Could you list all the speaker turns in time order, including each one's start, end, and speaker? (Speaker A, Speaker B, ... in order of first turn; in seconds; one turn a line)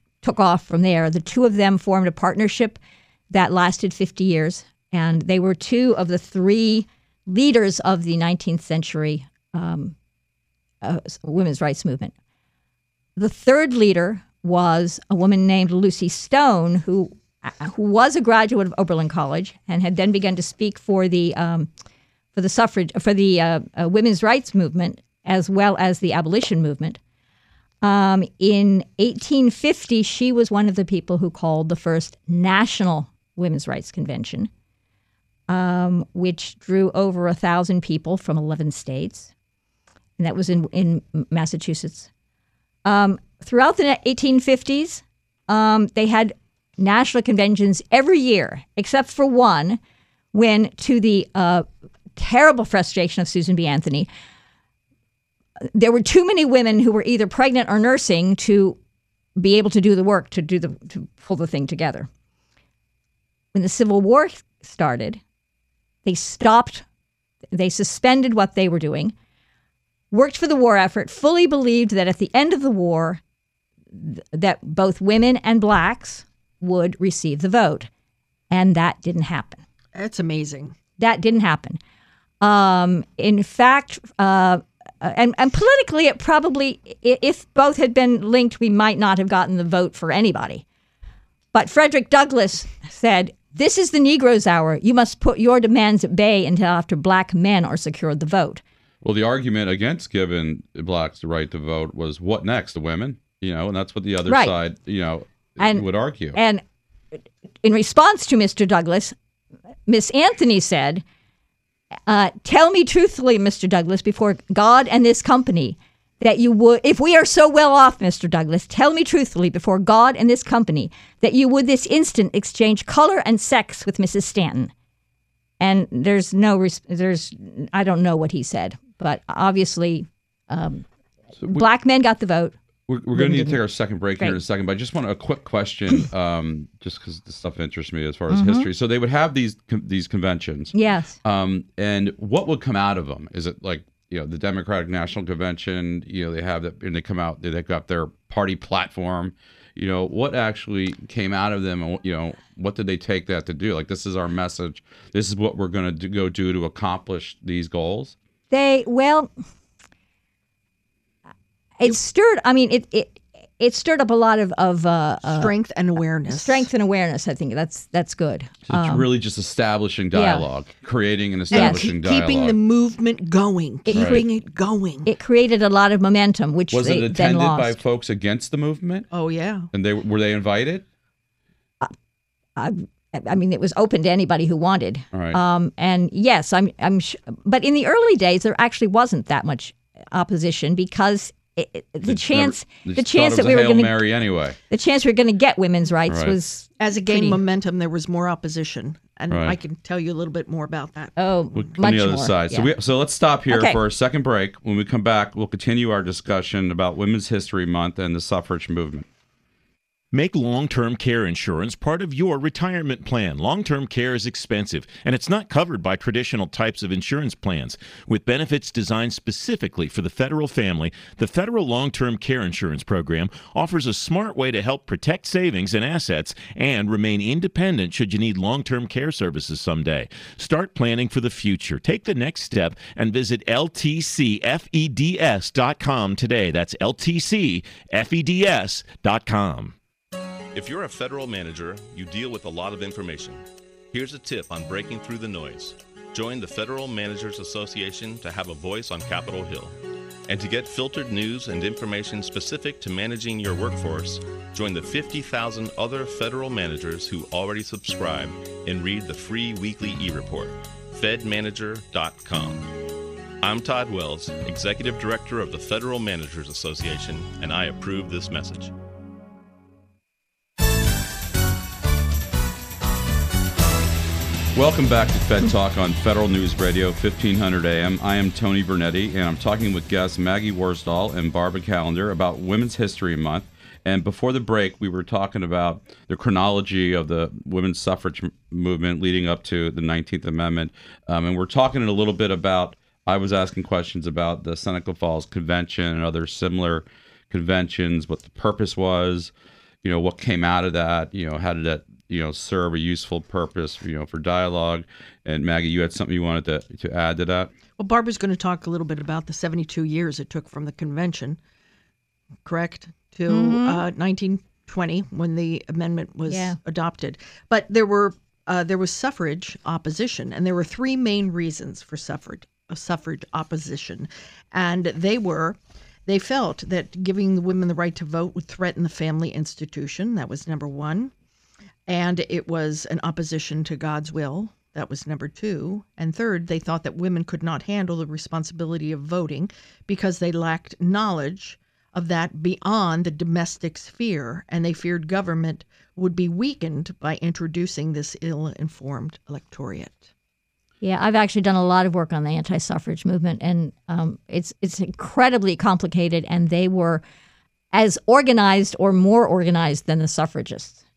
Speaker A: 0.2-9.9
Speaker A: 10.8-12.1
Speaker A: 13.2-21.7
Speaker A: 22.3-27.0
Speaker A: 27.8-34.5
Speaker A: 35.5-39.3
Speaker A: 40.2-42.1
Speaker A: 42.9-49.8
Speaker A: 50.3-54.1
Speaker A: 55.6-58.8
Speaker A: 59.4-62.1
Speaker A: 63.5-65.2
Speaker A: 66.0-66.8
Speaker A: 67.5-69.1
Speaker A: 70.1-73.2
Speaker A: 73.9-77.9
Speaker A: 78.5-79.6
Speaker B: 80.0-80.8
Speaker A: 81.0-81.8
Speaker A: 82.4-90.6
Speaker A: 91.5-98.6
Speaker C: 99.0-106.4
Speaker A: 104.3-104.5
Speaker A: 105.6-106.6
Speaker A: 107.6-109.2
Speaker A: 109.9-111.0
Speaker A: 112.1-124.7
Speaker A: 125.6-130.8
Speaker A: 131.4-132.5
Speaker C: 132.9-158.2
Speaker A: 133.1-133.6
Speaker A: 138.3-138.7
Speaker A: 140.7-141.2
Speaker A: 158.5-159.3
Speaker A: 161.8-165.5
Speaker B: 165.3-166.7
Speaker A: 166.3-169.1
Speaker C: 168.7-172.6
Speaker A: 170.1-170.5
Speaker A: 171.5-171.9
Speaker B: 171.5-175.1
Speaker A: 173.9-174.3
Speaker C: 173.9-174.2
Speaker A: 175.0-177.8
Speaker C: 176.7-179.1
Speaker B: 179.1-179.7
Speaker C: 179.7-180.8
Speaker A: 182.6-194.0
Speaker C: 185.1-185.4
Speaker C: 192.1-194.6
Speaker A: 194.7-197.4
Speaker C: 196.1-196.4
Speaker B: 196.8-201.2
Speaker C: 199.3-199.6
Speaker A: 201.2-202.7
Speaker C: 201.6-209.1
Speaker A: 203.5-203.8
Speaker D: 210.1-239.8
Speaker E: 240.5-262.7
Speaker E: 263.4-268.7
Speaker C: 274.6-299.3
Speaker C: 299.8-307.5
Speaker B: 307.8-311.4
Speaker B: 312.4-331.1
Speaker A: 313.3-313.8
Speaker A: 316.3-316.6
Speaker B: 331.9-350.1
Speaker A: 350.8-357.0
Speaker A: 357.7-360.8